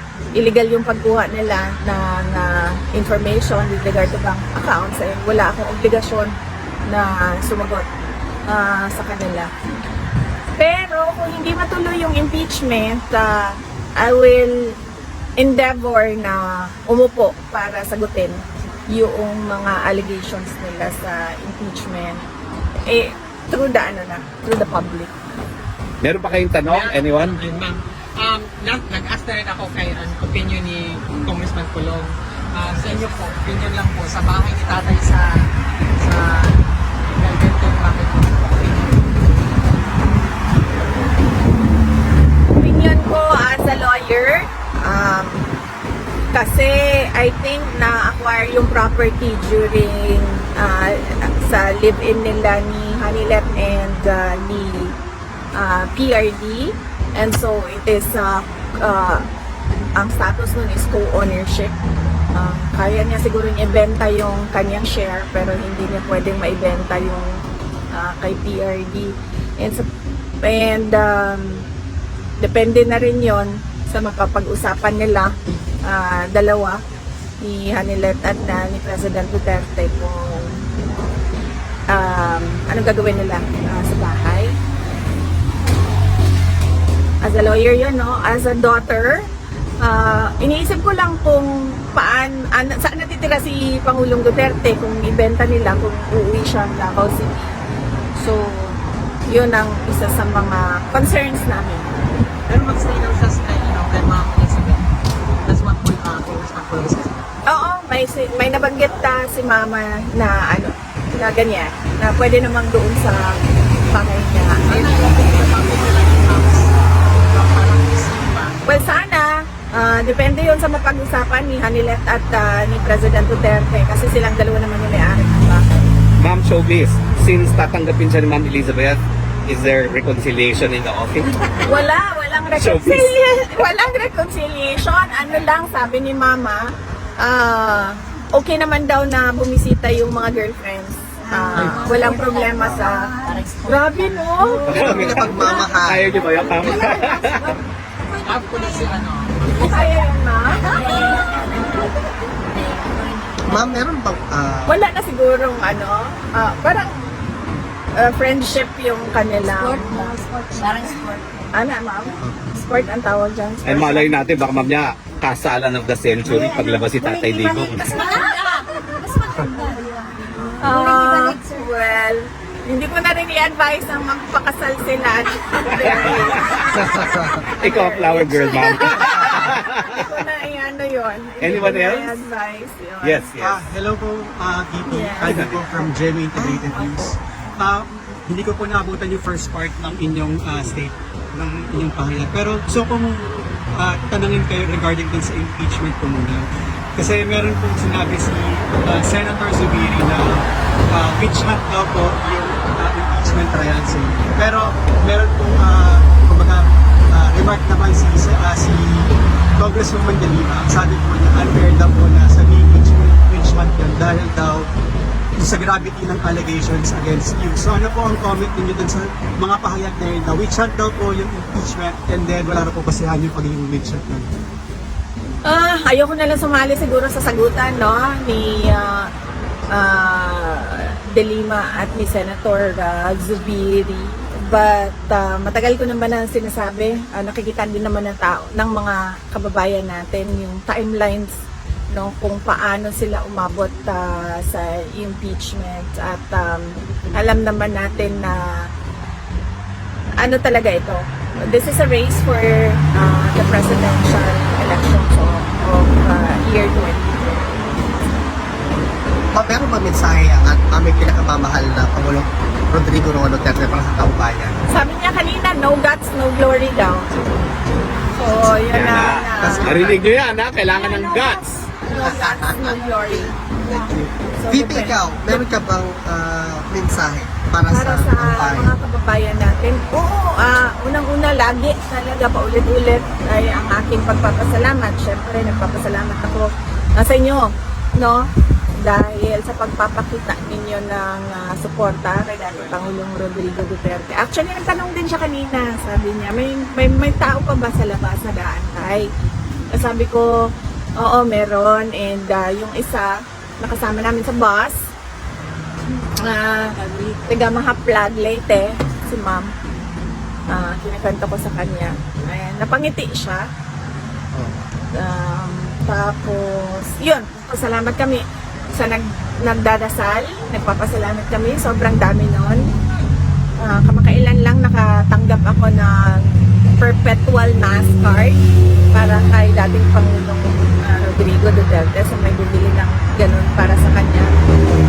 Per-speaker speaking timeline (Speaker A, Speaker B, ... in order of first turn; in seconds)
Speaker A: 0.4-6.3, 6.9-7.9, 8.5-9.5, 10.6-14.6, 15.4-18.4, 18.9-22.2, 22.9-25.1, 42.5-45.4, 46.3-55.0, 55.6-59.2, 60.0-61.8, 62.3-67.3, 67.9-69.9, 70.4-71.7, 72.4-75.3, 75.9-76.8, 77.4-80.6, 81.9-84.5, 87.2-89.2, 89.8-97.6, 98.2-101.9, 107.5-113.3, 113.9-115.5, 118.7-125.7, 131.6-143.1, 143.7-144.7, 149.6-150.7, 154.7-157.1, 158.0-160.2, 161.5-164.1, 170.6-183.3, 184.9-185.4, 225.4-229.1, 229.7-241.3, 241.9-248.7, 250.2-257.5, 264.7-267.1, 268.1-270.0, 271.0-271.3, 271.8-273.4, 274.4-275.4, 277.7-288.2, 288.9-299.1, 299.7-300.3, 301.0-304.8, 306.0-309.5, 310.5-313.4, 315.0-318.2, 318.8-322.6, 323.6-328.4, 328.9-334.3
Speaker B: 26.0-27.4, 126.2-131.4, 132.6-133.1, 144.7-147.5, 163.7-167.8, 176.0-176.6, 177.6-179.8, 181.4-182.2, 183.0-183.6, 185.2-185.6, 268.7-271.4
Speaker C: 26.7-39.2, 40.6-40.9, 102.5-104.9, 105.5-107.3, 114.7-118.6, 148.2-150.0
Speaker D: 141.3-149.0, 150.6-153.8, 159.6-161.5, 166.3-171.6
Speaker E: 144.7-146.1, 153.4-154.8, 176.7-177.4, 186.3-187.1, 259.3-264.6, 269.4-270.0, 271.9-272.5, 273.7-278.7
Speaker F: 183.4-214.7, 215.4-224.3